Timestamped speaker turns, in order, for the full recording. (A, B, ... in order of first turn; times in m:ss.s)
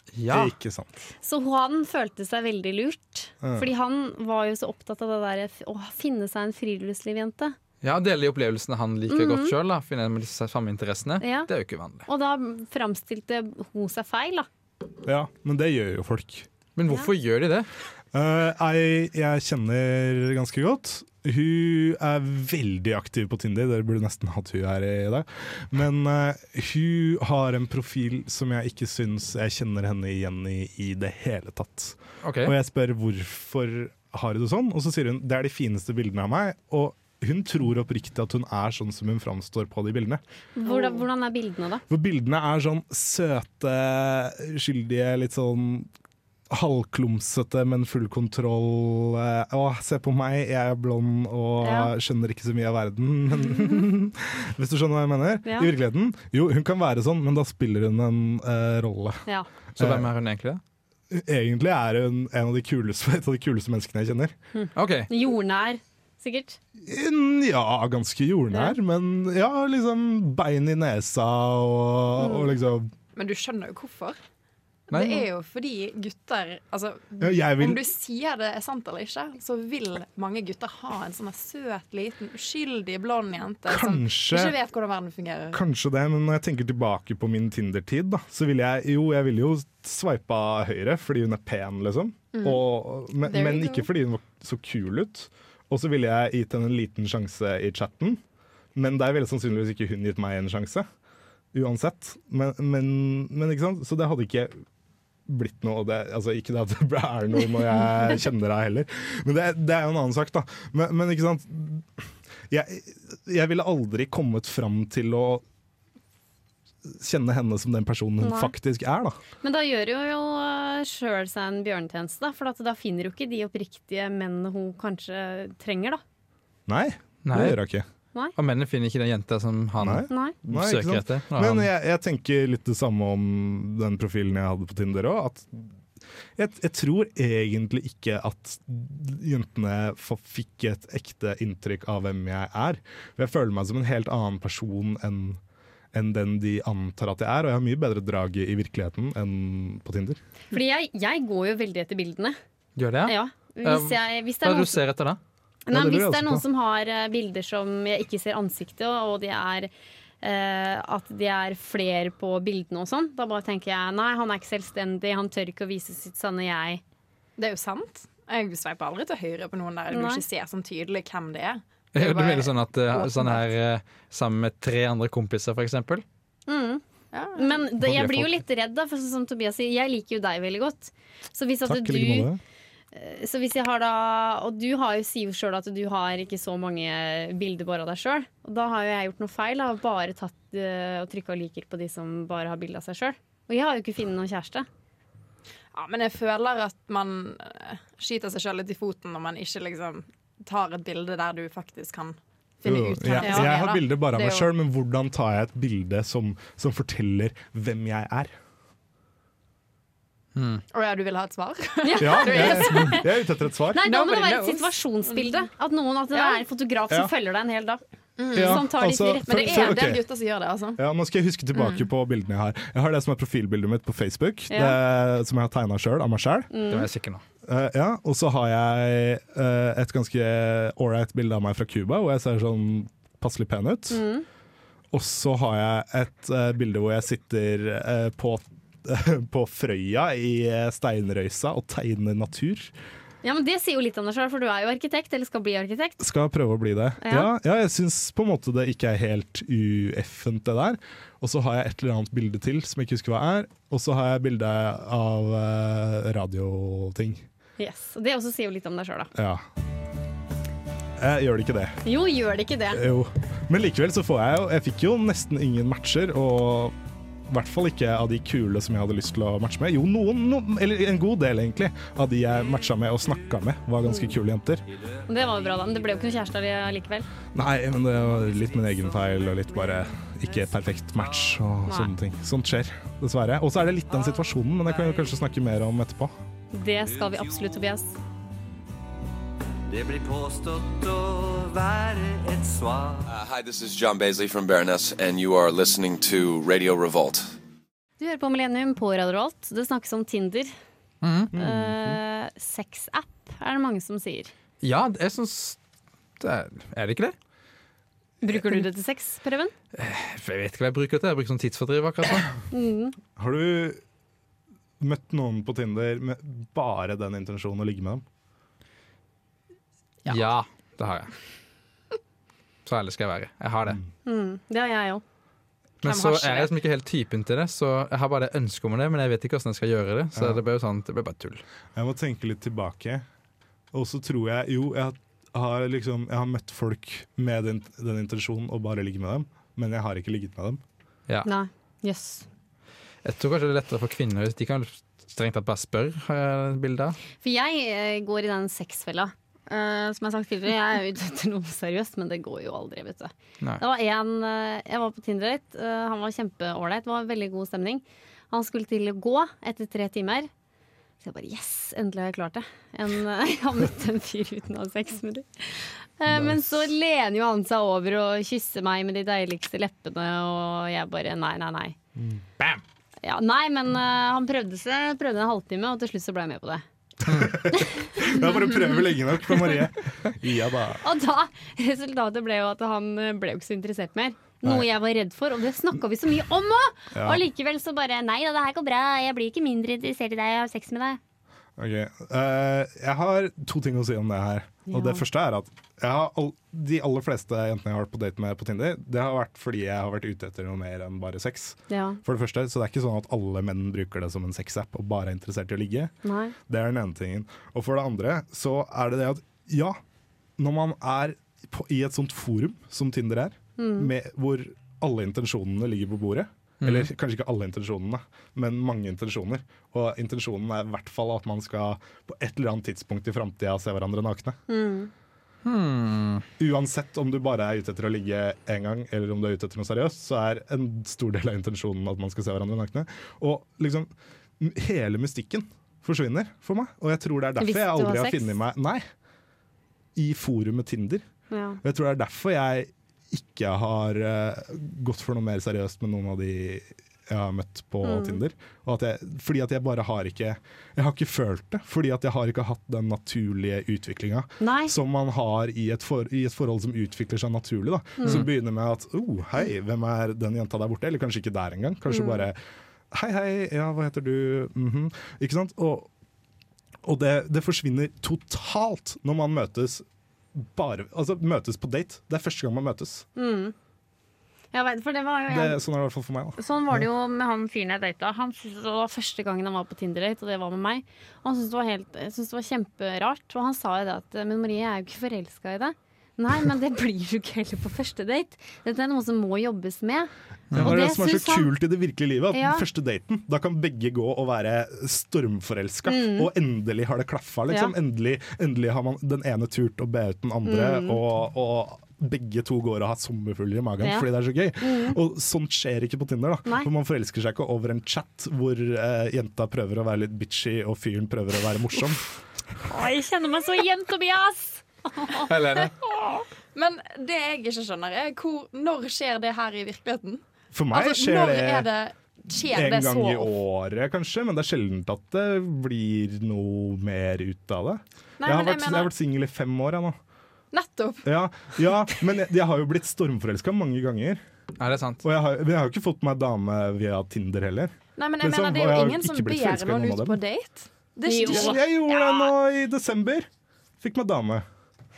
0:00.1-0:00.5 A
0:00.3-0:00.9 B
0:01.2-0:07.6 C
0:03.4-0:03.7 B
0:07.8-0:12.1 A
0:09.1-0:09.6 C
0:11.2-0:11.5 C
0:12.1-0:14.5 C
0:15.0-0:16.5 B
0:16.8-0:17.7 A
0:18.1-0:40.2 B
0:32.2-0:32.5 A
0:40.6-0:41.8 C
0:40.6-0:41.0 D
0:41.9-0:45.9 B
0:46.5-0:59.2 B
0:51.6-0:51.9 C
0:55.4-0:55.7 C
0:59.8-1:00.6 A
0:59.8-1:00.1 B
1:01.1-1:04.4 B
1:04.5-1:06.6 C
1:04.8-1:05.1 A
1:06.8-1:12.9 B
1:08.5-1:08.8 C
1:13.2-1:14.2 D
1:14.9-1:15.2 A
1:14.9-1:25.6 D
1:17.2-1:17.9 B
1:23.7-1:24.6 B
1:25.5-1:38.2 B
1:32.3-1:32.6 D
1:33.2-1:33.9 D
1:38.8-1:40.9 B
1:41.5-1:44.6 B
1:45.3-1:51.9 B
1:52.5-1:55.4 B
1:56.8-1:59.2 B
1:58.2-1:58.5 C
1:59.4-2:06.0 C
2:06.7-2:07.8 B
2:07.3-2:07.6 A
2:08.4-2:11.7 A
2:09.8-2:15.7 B
2:10.1-2:10.4 C
2:16.4-2:25.4 B
2:25.9-2:30.2 B
2:30.5-2:32.4 C
2:32.8-2:35.2 A
2:33.1-2:34.8 C
2:35.7-2:39.7 C
2:35.7-2:36.4 B
2:40.2-2:46.8 C
2:47.4-2:53.4 D
2:49.9-2:50.2 C
2:52.0-2:56.0 A
2:56.5-2:56.8 C
2:57.1-2:57.7 D
2:57.4-3:02.3 C
2:57.8-2:58.3 A
3:01.7-3:02.4 B
3:02.9-3:14.7 C
3:15.7-3:24.5 D
3:22.6-3:28.3 B
3:23.2-3:23.6 C
3:30.4-3:30.6 A
3:30.7-3:33.1 D
3:31.8-3:33.1 C
3:32.0-3:33.8 B
3:33.7-3:37.8 C
3:33.8-3:35.4 D
3:36.1-3:36.4 D
3:38.2-3:38.7 D
3:38.3-3:39.9 C
3:38.3-3:40.1 B
3:39.2-3:40.8 D
3:40.8-3:46.5 B
3:41.6-3:41.9 D
3:44.5-3:44.8 C
3:46.5-3:46.9 C
3:46.7-3:47.2 A
3:47.5-3:54.0 B
3:53.9-3:54.2 C
3:54.9-4:02.7 B
4:03.2-4:06.0 C
4:06.0-4:17.2 B
4:07.0-4:07.3 C
4:17.6-4:19.1 C
4:19.2-4:19.4 B
4:21.0-4:21.8 B
4:21.8-4:22.8 C
4:22.7-4:26.8 B
4:27.3-4:34.6 B
4:33.8-4:34.2 C
4:35.1-4:37.1 C
4:35.1-4:36.1 E
4:37.3-4:46.1 B
4:38.1-4:40.5 E
4:41.7-4:41.9 C
4:43.9-4:45.1 E
4:46.5-4:48.0 C
4:46.8-4:47.6 E
4:49.7-4:53.1 E
4:53.1-4:57.3 F
4:58.0-5:00.5 C
5:01.0-5:01.3 A
5:01.3-5:02.0 B
5:01.3-5:04.3 C
5:04.6-5:05.6 A
5:06.2-5:07.2 A
5:08.2-5:09.5 C
5:09.7-5:12.3 A
5:12.5-5:13.0 C
5:13.2-5:13.8 B
5:14.8-5:18.0 B
5:20.1-5:21.1 A
5:22.7-5:23.8 A
5:24.1-5:25.0 C
5:25.8-5:31.4 A
5:25.8-5:26.5 D
5:30.2-5:30.4 B
5:31.8-5:33.0 B
5:33.7-5:40.6 B
5:41.2-5:42.3 C
5:43.0-5:47.0 A
5:47.2-6:00.3 C
6:01.0-6:11.8 C
6:06.1-6:06.4 B
6:12.0-6:12.2 B
6:13.0-6:16.6 C
6:17.0-6:20.8 B
6:17.5-6:18.3 C
6:20.8-6:31.0 C
6:26.9-6:27.2 B
6:31.6-6:45.9 B
6:34.7-6:35.0 C
6:41.7-6:42.0 C
6:46.0-6:46.4 C
6:46.5-6:49.8 B
6:50.4-7:04.4 B
6:53.6-6:53.9 C
6:56.6-6:56.9 A
7:04.5-7:04.9 C
7:05.4-7:06.3 A
7:06.4-7:18.8 B
7:17.4-7:18.3 C
7:20.0-7:21.0 B
7:21.3-7:21.6 C
7:21.6-7:42.4 B
7:27.8-7:28.2 C
7:34.4-7:34.8 C
7:38.0-7:38.2 C
7:41.9-7:42.2 C
7:42.9-7:45.9 B
7:46.8-7:53.1 B
7:53.2-7:53.6 C
7:54.5-7:55.6 C
7:55.3-7:56.9 B
7:56.4-8:11.5 C
8:10.5-8:32.1 B
8:12.3-8:12.6 C
8:15.9-8:16.3 C
8:20.4-8:21.0 C
8:23.8-8:24.1 C
8:24.6-8:25.0 C
8:32.6-8:35.3 C
8:35.2-8:35.8 A
8:36.5-8:43.3 D
8:40.5-8:41.7 B
8:42.4-8:50.0 B
8:48.2-8:48.9 D
8:50.5-8:51.1 D
8:51.0-8:54.2 B
8:54.6-8:55.0 A
8:55.0-9:00.2 B
8:58.0-9:01.6 D
9:01.0-9:02.3 C
9:01.3-9:03.3 B
9:03.8-9:04.4 B